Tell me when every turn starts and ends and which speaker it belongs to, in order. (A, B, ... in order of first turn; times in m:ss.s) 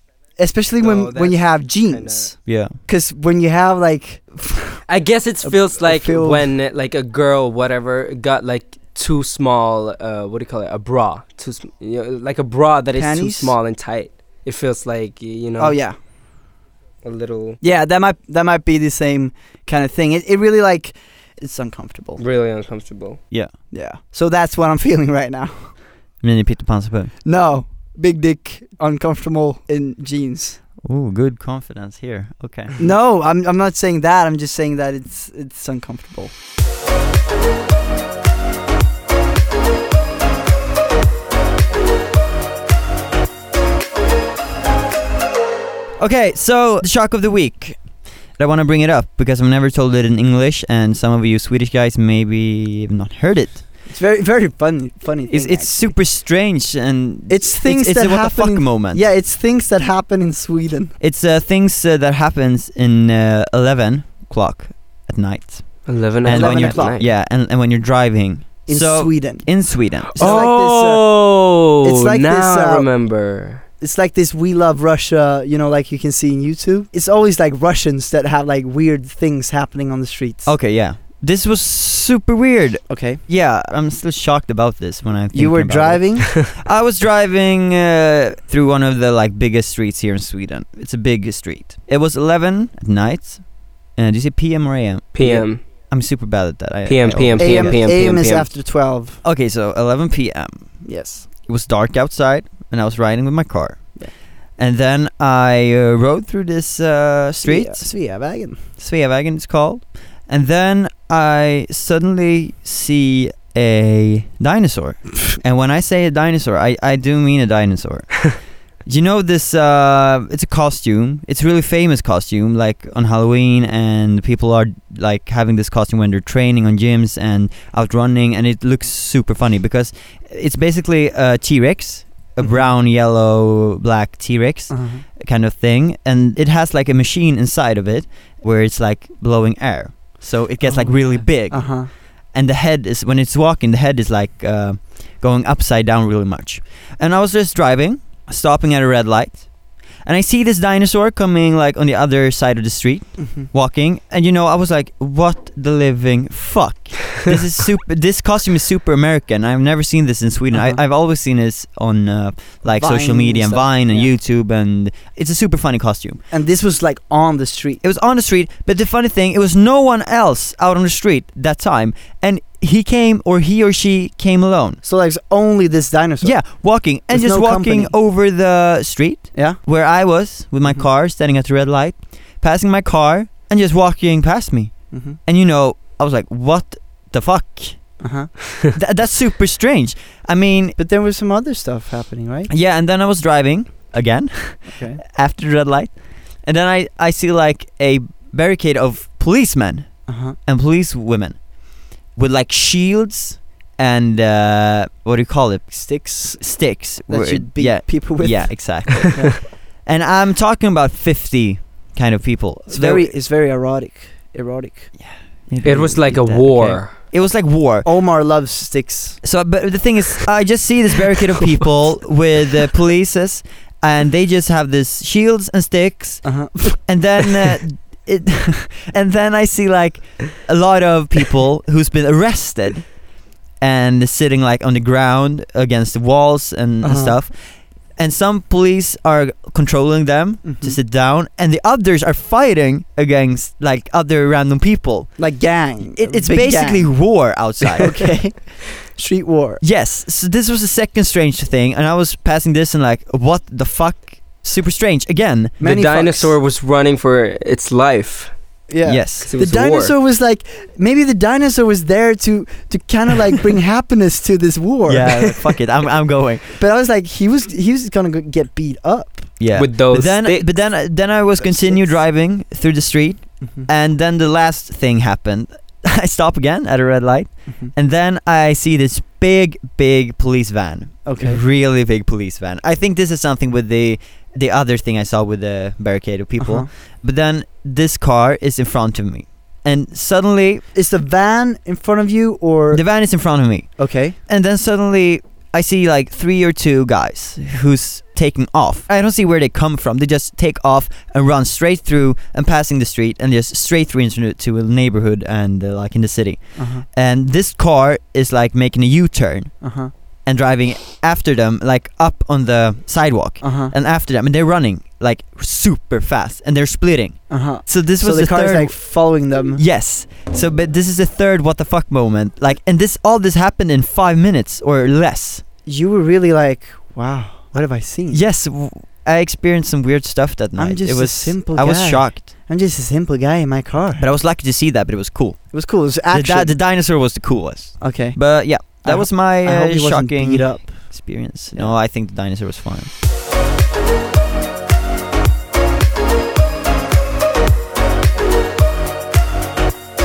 0:00.4-0:04.8 A
0:00.8-0:02.3 B
0:02.4-0:02.8 C
0:04.9-0:15.8 B
0:05.4-0:06.5 A
0:12.9-0:13.5 A
0:15.6-0:16.0 A
0:17.0-0:17.6 B
0:17.6-0:22.2 A
0:22.2-0:23.2 B
0:23.7-0:25.7 A
0:26.2-0:27.1 C
0:27.2-0:30.6 A
0:30.8-0:32.8 C
0:32.8-0:36.3 A
0:46.0-0:47.8 C
0:48.4-0:53.6 C
0:53.9-0:55.8 A
0:55.3-0:59.0 C
0:57.3-1:00.9 A
1:01.0-1:10.4 C
1:05.9-1:07.1 B
1:06.3-1:07.0 A
1:08.7-1:09.5 A
1:10.1-1:11.0 A
1:10.2-1:13.6 B
1:11.8-1:12.9 A
1:13.8-1:20.5 A
1:20.4-1:33.4 C
1:22.9-1:23.2 A
1:25.3-1:26.3 A
1:34.0-1:37.8 C
1:35.1-1:35.6 B
1:36.9-1:38.5 B
1:37.4-1:39.2 A
1:39.2-1:40.7 C
1:40.8-1:41.2 A
1:41.4-1:43.9 C
1:44.6-1:47.9 C
1:47.4-1:48.6 A
1:48.8-1:58.3 C
1:58.8-2:21.8 C
2:12.4-2:12.6 A
2:14.7-2:15.0 A
2:20.7-2:21.9 A
2:22.3-2:29.4 C
2:30.0-2:46.2 C
2:33.2-2:33.5 A
2:40.5-2:40.8 A
2:42.6-2:44.1 A
2:46.3-2:47.8 A
2:47.8-2:54.8 C
2:54.8-2:56.4 A
2:56.2-3:07.9 C
2:57.1-2:57.9 A
3:04.9-3:05.2 A
3:08.0-3:08.3 A
3:08.7-3:10.8 C
3:10.8-3:12.5 A
3:12.5-3:15.9 C
3:14.7-3:15.0 A
3:16.4-3:21.4 C
3:20.1-3:20.4 A
3:22.2-3:25.9 C
3:25.7-3:26.4 A
3:26.4-3:33.1 C
3:27.0-3:29.4 A
3:32.7-3:34.9 A
3:35.0-3:37.9 C
3:35.6-3:36.9 B
3:37.8-3:39.2 A
3:39.2-3:52.9 C
3:46.2-3:46.8 A
3:53.6-3:57.3 C
3:56.8-3:57.2 A
3:58.0-4:05.2 C
4:00.4-4:00.8 A
4:05.2-4:06.9 A
4:05.9-4:08.0 C
4:07.8-4:09.6 A
4:09.6-4:15.6 C
4:15.6-4:16.3 A
4:15.6-4:18.3 B
4:18.7-4:25.5 A
4:18.8-4:19.3 C
4:19.2-4:19.9 B
4:24.9-4:26.6 C
4:26.6-4:29.3 A
4:29.4-4:50.6 C
4:29.5-4:30.5 B
4:31.4-4:32.0 A
4:33.4-4:33.7 A
4:41.0-4:41.4 A
4:46.4-4:46.7 A
4:50.8-4:52.8 A
4:52.7-4:53.7 C
4:53.8-4:54.2 A
4:54.3-5:09.5 C
5:06.6-5:06.9 A
5:09.6-5:09.9 A
5:10.2-5:19.0 C
5:13.4-5:13.7 A
5:17.3-5:19.6 A
5:19.5-5:25.4 C
5:25.6-5:28.2 A
5:28.1-5:32.3 C
5:30.6-5:34.1 A
5:34.0-5:42.9 C
5:35.5-5:36.5 A
5:37.8-5:41.8 A